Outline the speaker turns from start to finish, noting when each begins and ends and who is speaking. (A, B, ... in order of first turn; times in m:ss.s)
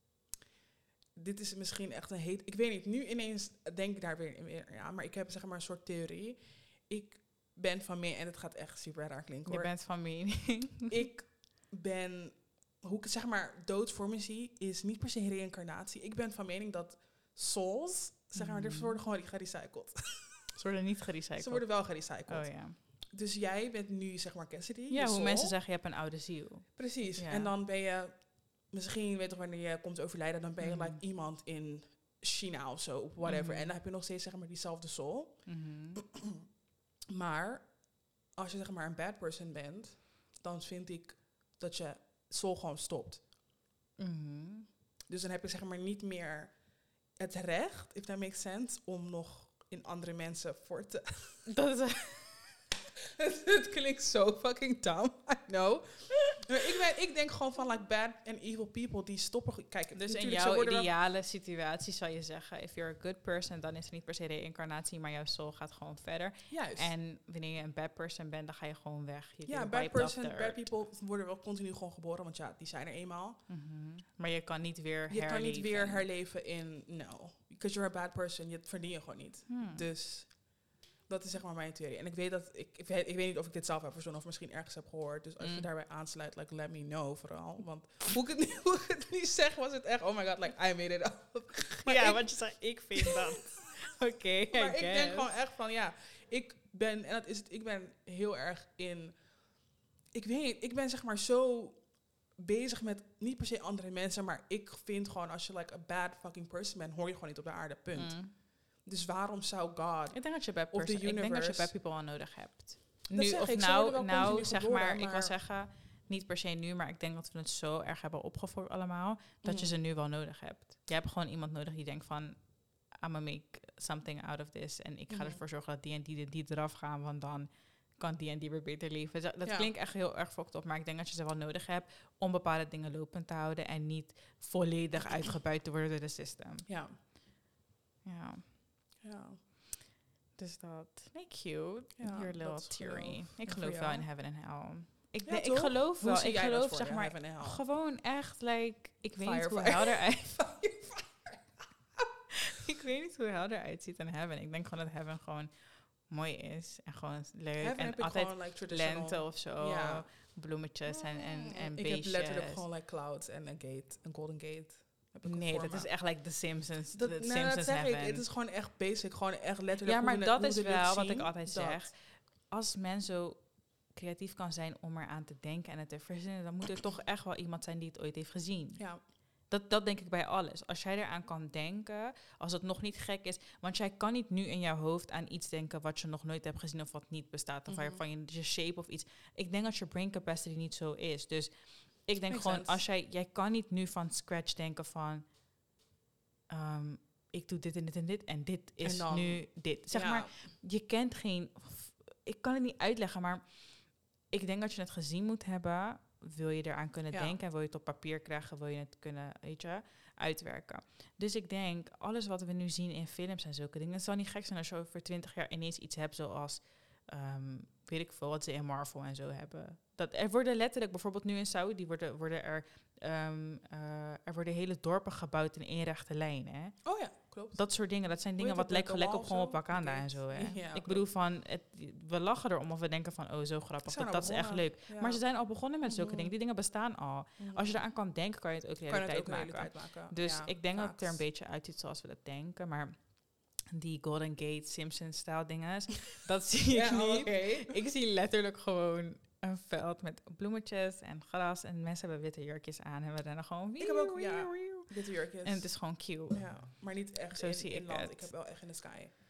0:01.1-0:09.8 A
0:09.4-0:11.0 B
0:10.9-0:20.5 A
0:18.3-0:19.0 B
0:20.6-0:22.8 B
0:21.4-0:25.5 A
0:24.9-0:27.5 B
0:26.8-0:36.4 A
0:30.6-0:31.0 B
0:33.2-0:33.7 B
0:35.4-0:36.0 B
0:37.1-0:43.2 A
0:44.0-0:44.7 B
0:45.1-0:46.6 A
0:47.2-0:51.5 A
0:51.5-0:52.5 B
0:53.2-1:00.9 A
0:59.9-1:10.6 B
1:06.5-1:06.9 A
1:09.4-1:13.4 A
1:13.5-1:16.0 B
1:15.1-1:32.3 A
1:19.5-1:19.9 B
1:25.4-1:25.7 B
1:31.8-1:35.3 B
1:34.5-1:39.6 A
1:40.1-1:51.8 A
1:47.9-1:48.3 B
1:50.1-2:16.7 B
1:53.1-1:55.4 A
1:59.4-1:59.8 A
2:05.1-2:05.4 A
2:09.4-2:09.7 A
2:16.6-2:17.0 A
2:18.0-2:18.5 B
2:19.0-2:19.4 A
2:20.3-2:30.4 B
2:22.0-2:24.1 A
2:25.2-2:27.6 A
2:29.2-2:32.0 A
2:32.5-2:42.6 B
2:37.6-2:40.1 A
2:40.9-2:46.0 A
2:45.2-2:48.2 B
2:46.9-2:51.9 A
2:49.8-3:15.3 B
2:58.8-2:59.0 A
3:07.7-3:08.0 A
3:12.3-3:12.8 A
3:16.5-4:18.5 B
3:18.8-3:20.5 A
3:27.1-3:27.4 A
3:46.8-3:51.0 A
3:53.8-3:56.3 A
3:57.4-3:57.8 A
3:58.9-4:01.2 A
4:06.7-4:07.8 A
4:13.8-4:19.1 A